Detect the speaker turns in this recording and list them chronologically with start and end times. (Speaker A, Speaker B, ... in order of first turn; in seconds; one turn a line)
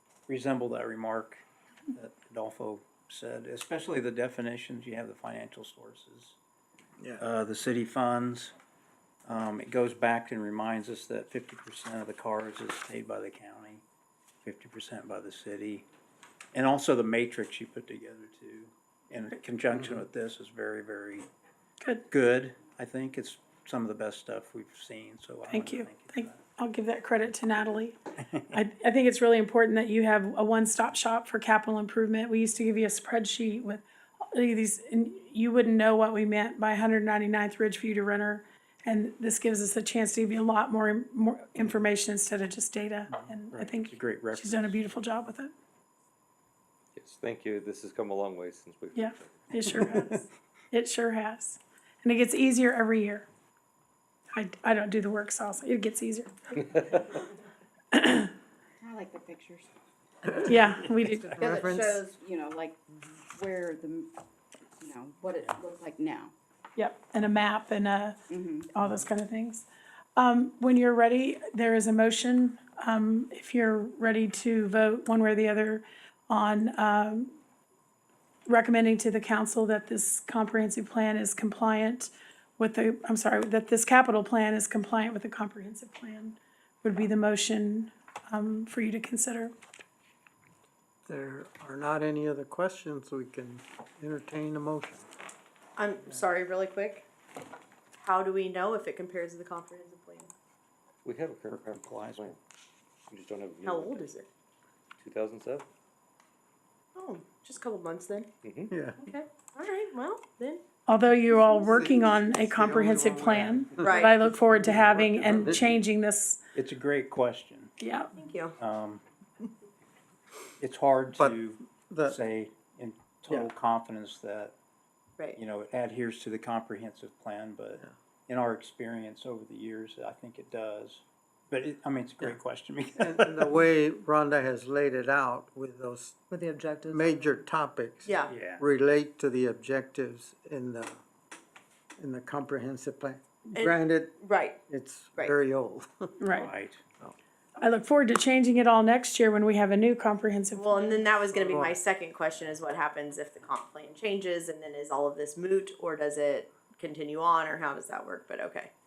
Speaker A: 0.3-6.4
Speaker A: 7.2-8.5
Speaker A: 9.2-13.8
Speaker A: 14.4-15.8
Speaker A: 16.5-21.3
Speaker A: 22.1-26.4
Speaker B: 25.5-28.0
Speaker B: 28.5-45.5
Speaker A: 43.1-44.9
Speaker C: 47.0-49.6
Speaker B: 48.9-53.2
Speaker B: 54.3-56.3
Speaker B: 57.9-58.3
Speaker D: 58.8-59.7
Speaker B: 60.4-61.5
Speaker E: 61.0-62.0
Speaker D: 61.4-64.1
Speaker D: 64.8-66.3
Speaker B: 66.8-77.3
Speaker D: 68.3-68.7
Speaker B: 78.5-89.5
Speaker E: 91.1-95.1
Speaker F: 95.8-97.0
Speaker F: 98.0-100.3
Speaker C: 101.0-102.4
Speaker A: 101.5-102.3
Speaker C: 103.1-104.1
Speaker F: 103.7-104.2
Speaker C: 105.0-105.7
Speaker F: 107.0-108.3
Speaker C: 108.4-108.7
Speaker E: 108.7-109.0
Speaker F: 109.0-110.6
Speaker B: 110.9-116.4
Speaker E: 111.3-115.8
Speaker F: 113.8-114.1
Speaker A: 116.5-117.7
Speaker B: 117.8-118.1
Speaker F: 118.1-118.5
Speaker A: 118.6-119.0
Speaker A: 120.6-124.5
Speaker E: 121.2-122.2
Speaker A: 125.3-133.6
Speaker E: 133.0-136.2
Speaker F: 136.5-136.9
Speaker E: 136.8-141.0
Speaker A: 138.3-138.6
Speaker E: 142.0-146.2
Speaker F: 143.5-144.6
Speaker B: 146.2-146.5
Speaker A: 146.3-146.8
Speaker B: 147.6-151.0
Speaker F: 150.6-158.7
Speaker E: 151.3-151.8